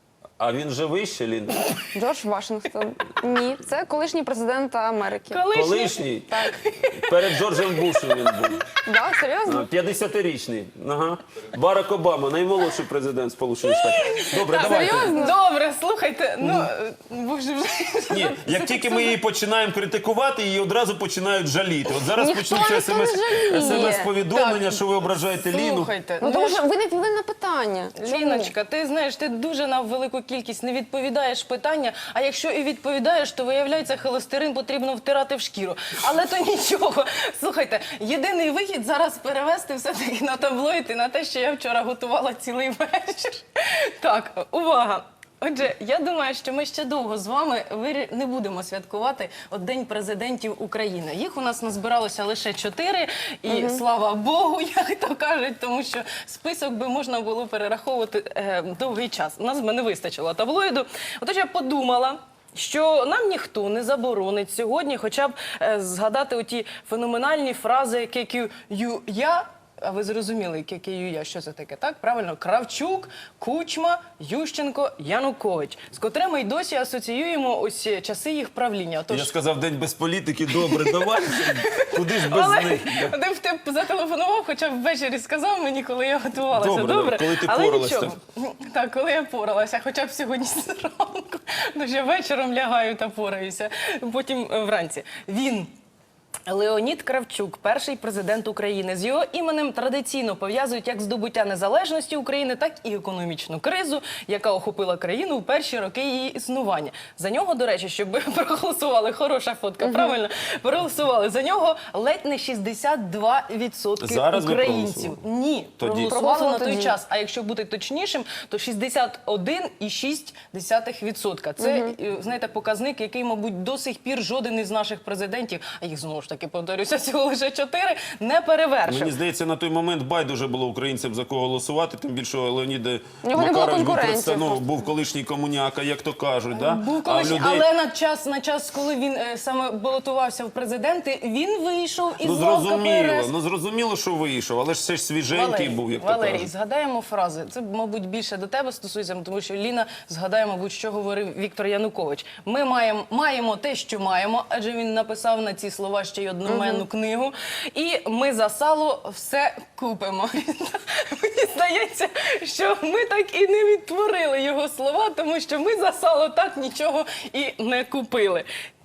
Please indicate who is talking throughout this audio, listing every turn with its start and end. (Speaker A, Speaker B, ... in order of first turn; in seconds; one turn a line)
Speaker A: 0.4-1.7
Speaker B: 1.9-5.5
Speaker C: 5.3-8.6
Speaker A: 5.5-6.3
Speaker B: 6.3-6.5
Speaker A: 6.9-8.6
Speaker B: 8.8-9.7
Speaker A: 9.4-15.2
Speaker C: 13.7-18.6
Speaker B: 14.3-15.4
Speaker A: 18.1-25.9
Speaker B: 22.0-24.1
Speaker C: 23.5-26.6
Speaker B: 26.2-28.5
Speaker C: 27.9-79.3
Speaker B: 53.5-53.8
Speaker A: 79.1-83.1
Speaker C: 80.6-95.7
Speaker A: 86.5-88.2
Speaker C: 96.5-129.1
Speaker B: 109.8-110.1
Speaker A: 114.0-115.2
Speaker A: 115.8-116.2
Speaker B: 116.0-117.0
Speaker B: 121.6-121.9
Speaker A: 128.8-137.7
Speaker B: 133.2-134.6
Speaker C: 136.5-143.3
Speaker A: 142.2-146.5
Speaker C: 145.3-168.5
Speaker B: 156.4-156.8